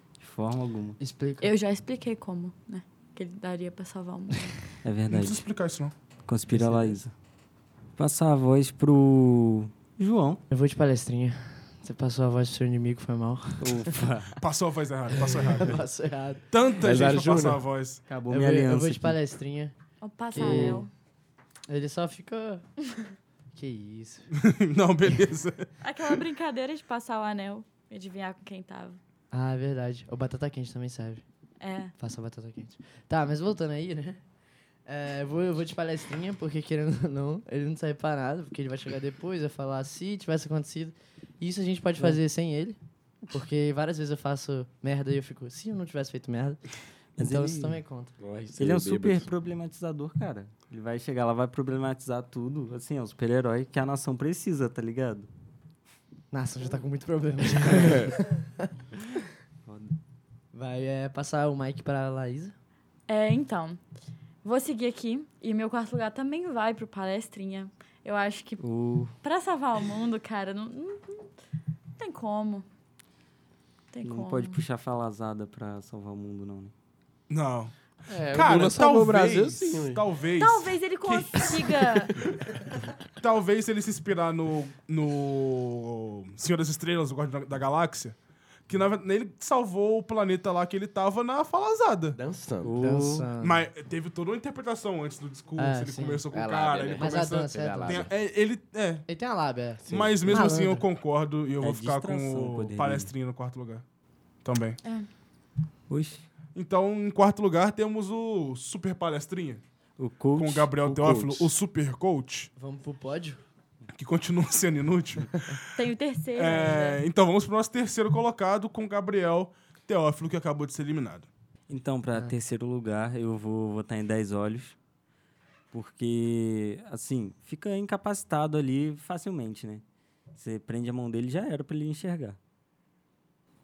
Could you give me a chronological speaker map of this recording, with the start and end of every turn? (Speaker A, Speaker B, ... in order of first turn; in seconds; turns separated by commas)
Speaker A: 0.2-1.0, Speaker B: 1.0-1.5, Speaker C: 1.4-4.6, Speaker A: 4.8-5.4, Speaker D: 5.1-5.9, Speaker A: 6.2-7.1, Speaker B: 6.5-7.0, Speaker A: 8.0-10.4, Speaker B: 10.5-14.0, Speaker A: 13.6-14.4, Speaker D: 14.4-15.8, Speaker B: 15.4-16.4, Speaker D: 16.5-18.0, Speaker E: 16.8-17.6, Speaker A: 18.1-19.2, Speaker B: 18.3-19.7, Speaker C: 20.0-20.9, Speaker B: 20.3-20.9, Speaker A: 20.4-20.7, Speaker B: 21.7-22.6, Speaker B: 23.5-24.3, Speaker D: 24.3-26.2, Speaker C: 25.8-29.0, Speaker B: 29.3-31.2, Speaker C: 31.6-31.9, Speaker B: 32.0-34.2, Speaker B: 34.9-42.8, Speaker B: 43.3-46.6, Speaker A: 47.2-47.8, Speaker B: 47.2-48.1, Speaker E: 48.2-49.3, Speaker A: 48.6-55.3, Speaker B: 56.3-58.7, Speaker E: 57.7-58.1, Speaker A: 59.6-59.9, Speaker B: 60.5-62.5, Speaker C: 63.1-63.8, Speaker C: 64.4-68.6, Speaker A: 68.6-69.1, Speaker C: 69.2-71.3, Speaker C: 72.0-72.7, Speaker C: 73.9-74.6, Speaker A: 74.0-76.7, Speaker D: 77.3-77.7, Speaker E: 78.1-80.0, Speaker D: 78.3-82.6, Speaker C: 80.4-82.2, Speaker D: 83.2-88.2, Speaker D: 88.7-92.2, Speaker E: 92.1-92.8, Speaker A: 92.6-93.3, Speaker B: 92.8-93.7, Speaker D: 93.4-99.0, Speaker B: 95.6-96.2, Speaker E: 96.3-98.1, Speaker B: 97.0-98.1, Speaker B: 99.1-100.8, Speaker E: 99.8-100.5, Speaker D: 99.9-103.8, Speaker A: 101.6-103.1, Speaker D: 104.4-104.8, Speaker A: 105.9-106.2, Speaker D: 106.5-109.6, Speaker A: 110.0-110.8, Speaker D: 110.3-112.5, Speaker E: 110.8-111.5, Speaker B: 112.6-113.4, Speaker D: 113.9-115.6, Speaker C: 115.8-117.0, Speaker D: 116.3-121.3, Speaker A: 121.7-124.8, Speaker A: 125.7-129.8, Speaker A: 130.3-132.4